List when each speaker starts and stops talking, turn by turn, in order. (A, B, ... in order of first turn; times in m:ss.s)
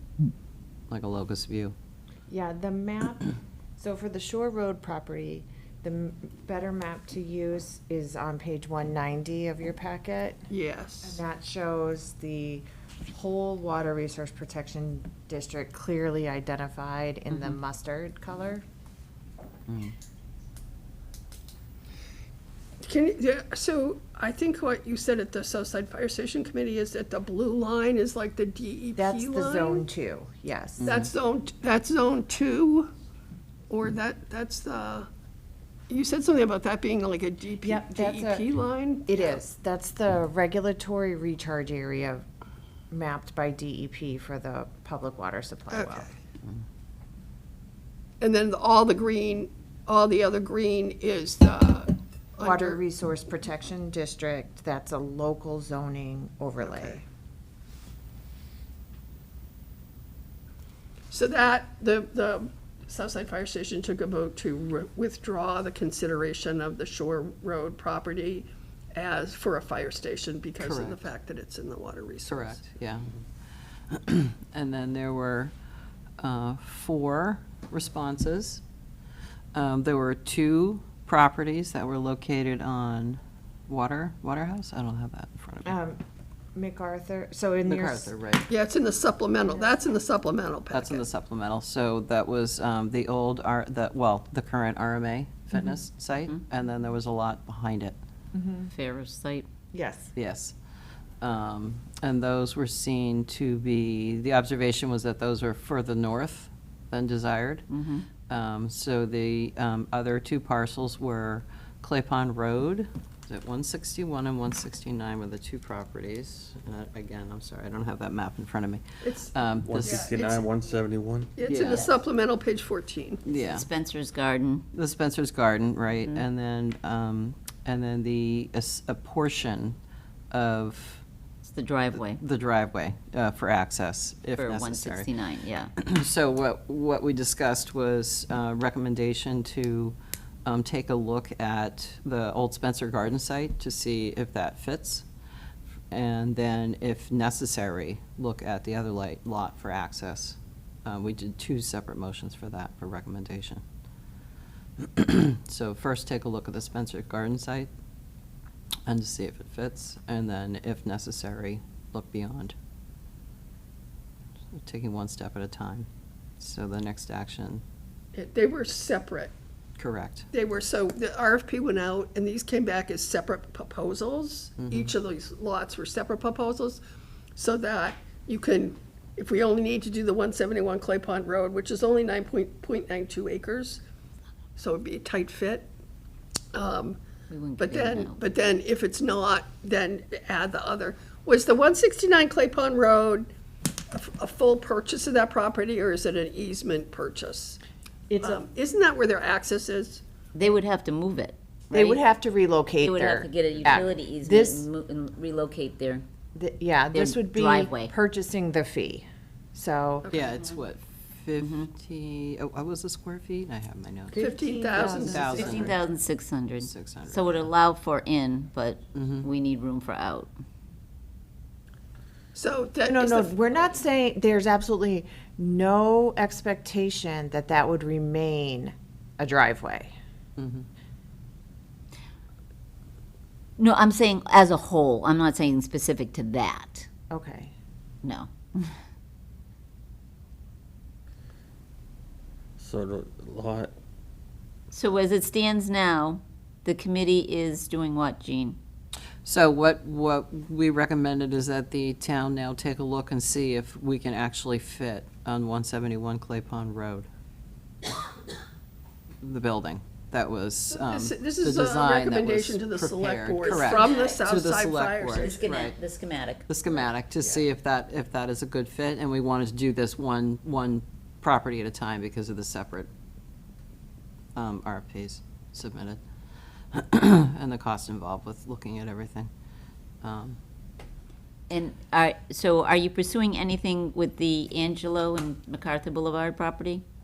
0:00.9-0:01.7 A
0:02.3-0:03.2 B
0:03.8-0:10.5 B
0:10.5-0:11.2 C
0:11.0-0:18.6 B
0:17.3-0:17.6 A
0:19.7-0:19.9 A
0:22.8-0:29.8 C
0:28.9-0:30.9 B
0:30.8-0:31.1 A
0:30.8-0:32.9 C
0:33.7-0:35.1 C
0:35.9-0:39.4 C
0:37.6-0:38.5 B
0:39.0-0:42.2 B
0:42.9-0:46.1 B
0:45.7-0:46.0 C
0:48.2-0:52.8 C
0:52.4-0:57.0 B
0:56.6-0:57.0 C
1:01.1-1:12.6 C
1:10.6-1:11.0 A
1:12.2-1:13.1 A
1:13.9-1:15.5 A
1:16.2-1:18.6 A
1:19.5-1:25.7 A
1:25.6-1:26.0 B
1:26.5-1:28.1 B
1:27.6-1:28.5 A
1:28.5-1:31.0 C
1:29.5-1:29.8 B
1:30.7-1:38.0 A
1:38.3-1:38.7 B
1:38.7-1:39.5 D
1:39.7-1:40.1 B
1:40.2-1:40.5 A
1:41.2-1:47.7 A
1:47.7-1:48.1 D
1:48.2-2:00.0 A
1:59.0-2:00.5 C
1:59.6-2:01.3 E
2:01.4-2:03.2 C
2:01.4-2:01.9 A
2:01.5-2:01.9 D
2:03.2-2:03.7 A
2:03.3-2:04.6 D
2:04.7-2:09.8 A
2:10.3-2:11.0 A
2:11.4-2:12.2 D
2:11.9-2:15.1 A
2:14.4-2:15.7 D
2:15.8-2:25.0 A
2:25.9-2:33.6 A
2:34.8-2:37.7 A
2:38.8-2:42.5 A
2:44.5-2:45.9 A
2:46.4-2:47.6 A
2:48.1-2:49.3 C
2:49.8-2:50.3 A
2:50.3-2:56.8 C
2:54.6-2:54.9 A
2:57.4-3:03.8 C
3:04.6-3:05.7 C
3:06.5-3:07.0 C
3:07.3-3:08.2 D
3:07.6-3:13.3 C
3:13.9-3:17.6 C
3:18.1-3:18.4 B
3:18.2-3:20.0 C
3:20.3-3:22.0 D
3:21.7-3:24.7 B
3:22.8-3:26.0 D
3:26.3-3:30.1 B
3:26.9-3:27.9 D
3:30.1-3:30.4 C
3:30.1-3:34.2 A
3:31.4-3:31.7 D
3:34.1-3:35.8 B
3:34.2-3:35.7 C
3:34.7-3:35.8 A
3:35.3-3:40.3 D
3:36.6-3:37.5 A
3:38.9-3:39.3 A
3:42.3-3:43.4 C
3:42.8-3:49.9 B
3:50.4-3:50.6 A
3:53.6-3:56.9 D
3:57.1-3:57.5 B
3:58.0-3:58.8 D
4:02.6-4:03.7 E
4:04.7-4:08.6 D
4:09.2-4:17.1 A
4:19.2-4:25.7 A
4:20.7-4:25.4 C
4:23.4-4:24.2 D
4:25.2-4:26.9 D
4:26.5-4:32.9 A
4:34.3-4:36.0 A
4:36.7-4:39.3 A
4:40.0-4:40.4 A
4:41.5-4:46.8 D